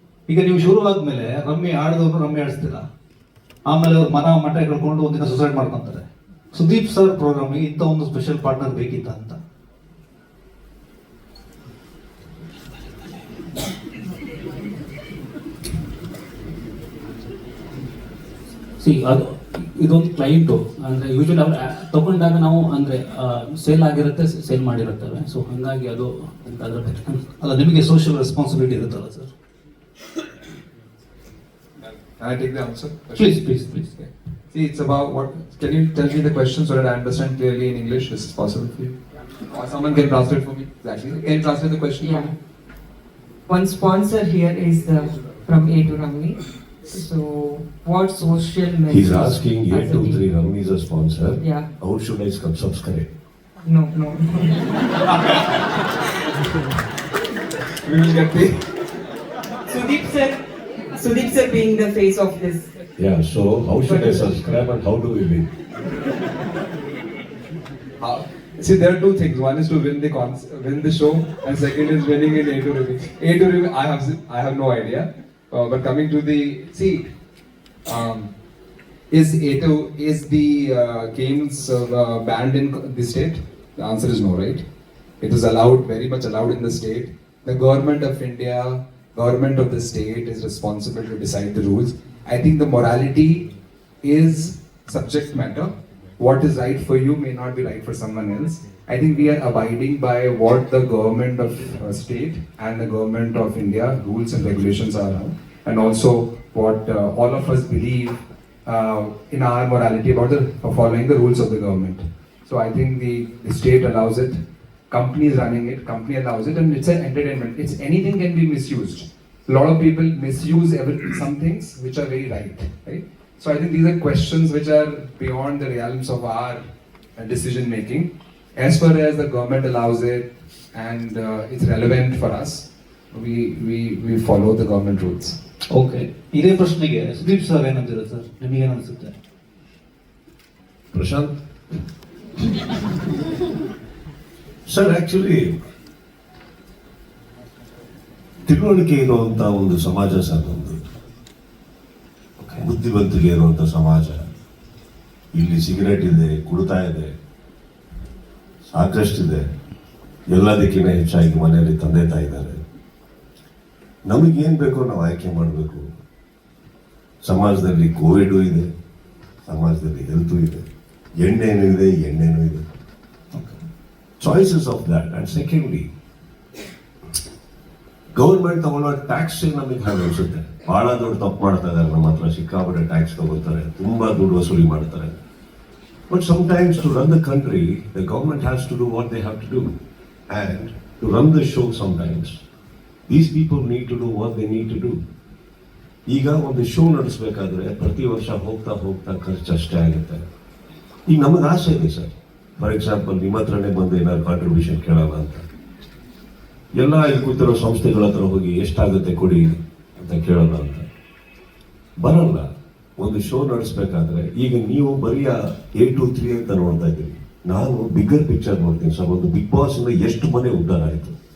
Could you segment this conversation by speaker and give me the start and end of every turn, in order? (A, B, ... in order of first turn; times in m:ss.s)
0:00.3-0:02.9 A
0:03.7-0:09.4 A
0:18.8-0:27.3 B
0:27.4-0:29.3 A
0:32.2-0:33.5 C
0:33.2-0:33.9 A
0:34.0-0:38.9 C
0:39.5-0:42.2 C
0:42.0-0:42.3 D
0:43.5-0:50.2 D
0:48.9-0:53.1 E
0:51.4-0:51.7 D
0:53.6-0:55.1 D
0:57.8-0:58.5 C
0:59.7-1:02.7 D
1:03.0-1:05.5 E
1:03.8-1:04.3 D
1:08.0-1:17.1 C
1:17.8-1:18.3 C
1:19.1-1:24.6 C
1:25.2-1:33.4 C
1:34.0-1:54.3 C
1:54.9-2:06.6 C
2:07.2-2:15.4 C
2:15.7-2:19.2 A
2:20.9-2:21.4 E
2:24.7-2:25.5 E
2:28.4-2:30.8 E
2:32.6-2:34.2 E
2:35.3-2:37.1 E
2:38.7-2:39.5 E
2:40.3-2:42.6 E
2:44.1-2:45.8 E
2:47.2-2:48.7 E
2:49.4-2:50.6 E
2:51.2-2:52.6 E
2:53.3-2:53.6 A
2:54.2-2:55.9 E
2:58.1-3:05.2 E
3:06.1-3:09.7 E
3:10.3-3:12.4 E
3:13.1-3:15.0 E
3:16.1-3:20.2 E
3:21.1-3:25.4 E
3:26.8-3:30.8 E
3:32.0-3:41.1 E